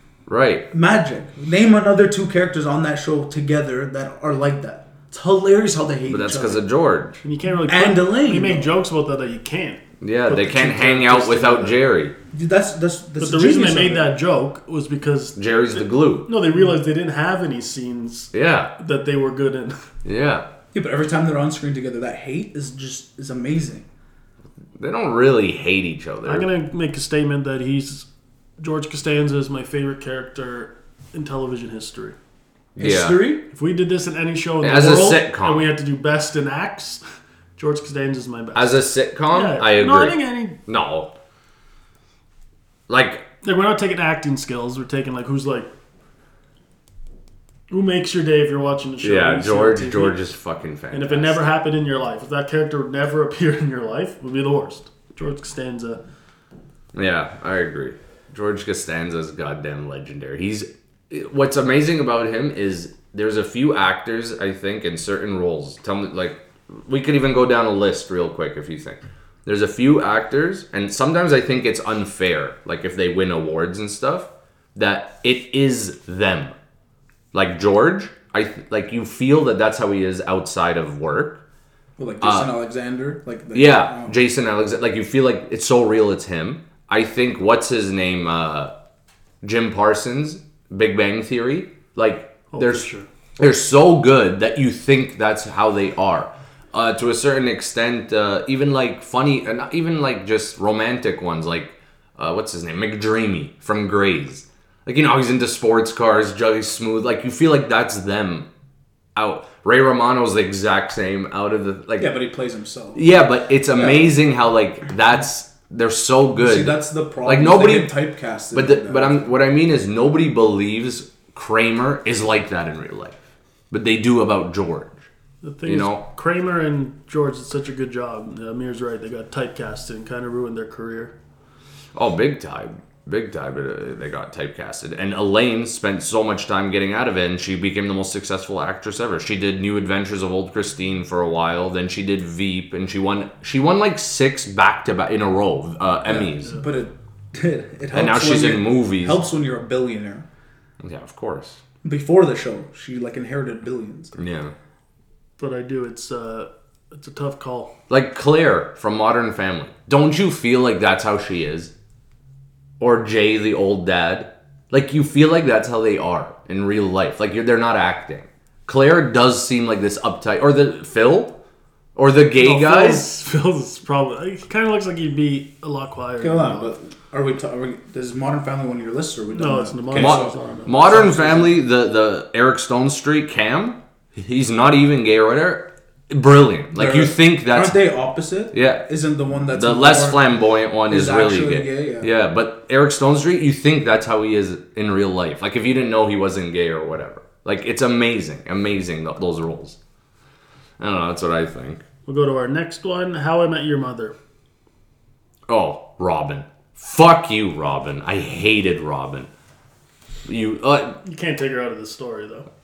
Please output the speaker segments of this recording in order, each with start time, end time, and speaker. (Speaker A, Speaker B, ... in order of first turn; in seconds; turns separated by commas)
Speaker A: 0.3-0.7, Speaker B: 0.7-6.6, Speaker A: 6.1-7.2, Speaker C: 7.2-11.8, Speaker B: 7.6-8.7, Speaker A: 10.0-12.2, Speaker B: 12.3-14.1, Speaker C: 13.2-19.9, Speaker A: 15.4-16.3, Speaker A: 18.3-18.7, Speaker A: 20.0-20.4, Speaker B: 20.7-23.9, Speaker A: 24.8-26.5, Speaker C: 26.2-28.1, Speaker C: 28.6-32.1, Speaker A: 32.7-33.2, Speaker B: 32.8-33.5, Speaker C: 33.5-37.0, Speaker A: 34.6-35.7, Speaker C: 37.6-40.6, Speaker A: 38.5-41.1, Speaker A: 42.9-43.3, Speaker C: 43.4-45.7, Speaker C: 47.7-50.2, Speaker A: 49.0-51.5, Speaker C: 50.9-56.0, Speaker A: 56.9-76.5, Speaker A: 77.3-81.4, Speaker B: 82.0-84.2, Speaker A: 82.2-82.5, Speaker A: 83.5-88.7, Speaker A: 89.4-108.5, Speaker C: 92.5-93.1, Speaker A: 109.2-112.2, Speaker B: 112.0-113.0, Speaker A: 112.9-117.9, Speaker B: 113.7-114.1, Speaker B: 116.3-119.3, Speaker A: 118.5-123.2, Speaker A: 123.7-125.0, Speaker C: 125.4-131.1, Speaker A: 125.7-126.0, Speaker A: 131.9-146.6, Speaker B: 146.0-150.2, Speaker A: 147.9-149.2, Speaker A: 150.8-151.6, Speaker B: 151.8-154.2, Speaker A: 154.2-154.5, Speaker C: 155.4-157.7, Speaker A: 157.9-161.7, Speaker A: 162.8-171.4, Speaker A: 171.9-173.1, Speaker C: 172.3-176.7, Speaker B: 176.2-180.3, Speaker C: 179.3-181.5, Speaker A: 179.9-187.8, Speaker B: 180.9-181.5, Speaker B: 186.7-190.2, Speaker A: 188.5-188.8, Speaker A: 189.5-199.8, Speaker B: 190.9-192.1, Speaker A: 200.8-201.8, Speaker C: 202.1-204.2, Speaker A: 205.5-209.3, Speaker A: 210.2-211.0, Speaker C: 211.0-212.5